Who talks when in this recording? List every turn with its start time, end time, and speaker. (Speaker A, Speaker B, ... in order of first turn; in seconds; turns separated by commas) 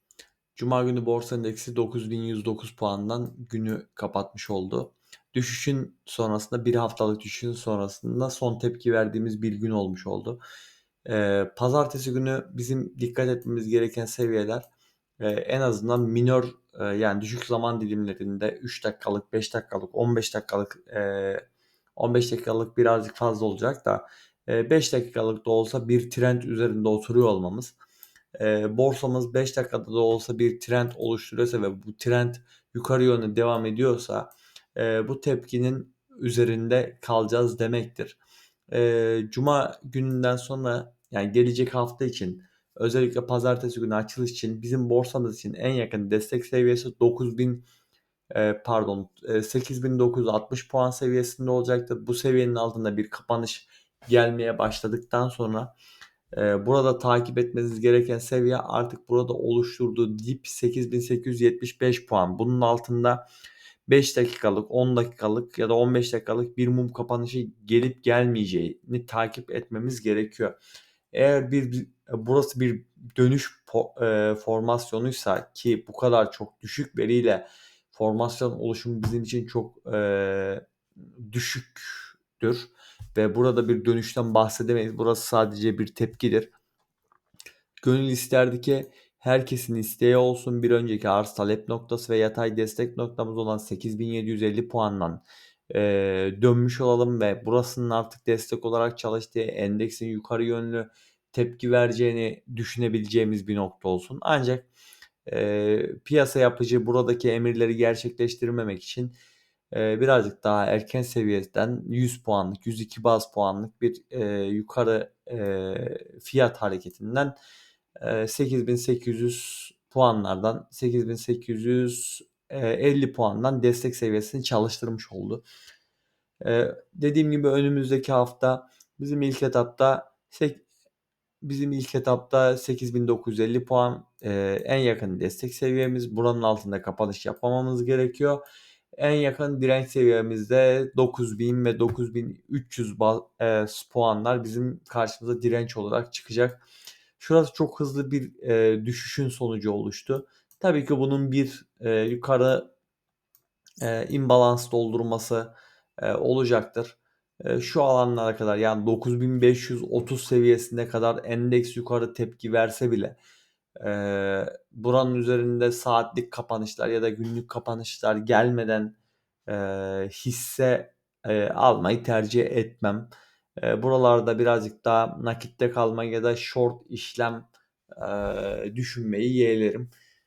Speaker A: 0.6-10.4, Speaker A: 11.1-14.7, Speaker A: 15.2-21.4, Speaker A: 22.0-27.8, Speaker A: 28.4-38.2, Speaker A: 38.7-47.6, Speaker A: 48.3-55.7, Speaker A: 56.3-63.2, Speaker A: 63.9-70.6, Speaker A: 71.1-80.6, Speaker A: 81.2-86.5, Speaker A: 87.8-104.7, Speaker A: 105.3-109.2, Speaker A: 109.7-117.3, Speaker A: 118.0-125.4, Speaker A: 126.4-130.6, Speaker A: 131.4-138.4, Speaker A: 139.0-146.6, Speaker A: 147.2-152.7, Speaker A: 153.8-163.2, Speaker A: 163.8-168.9, Speaker A: 169.5-179.9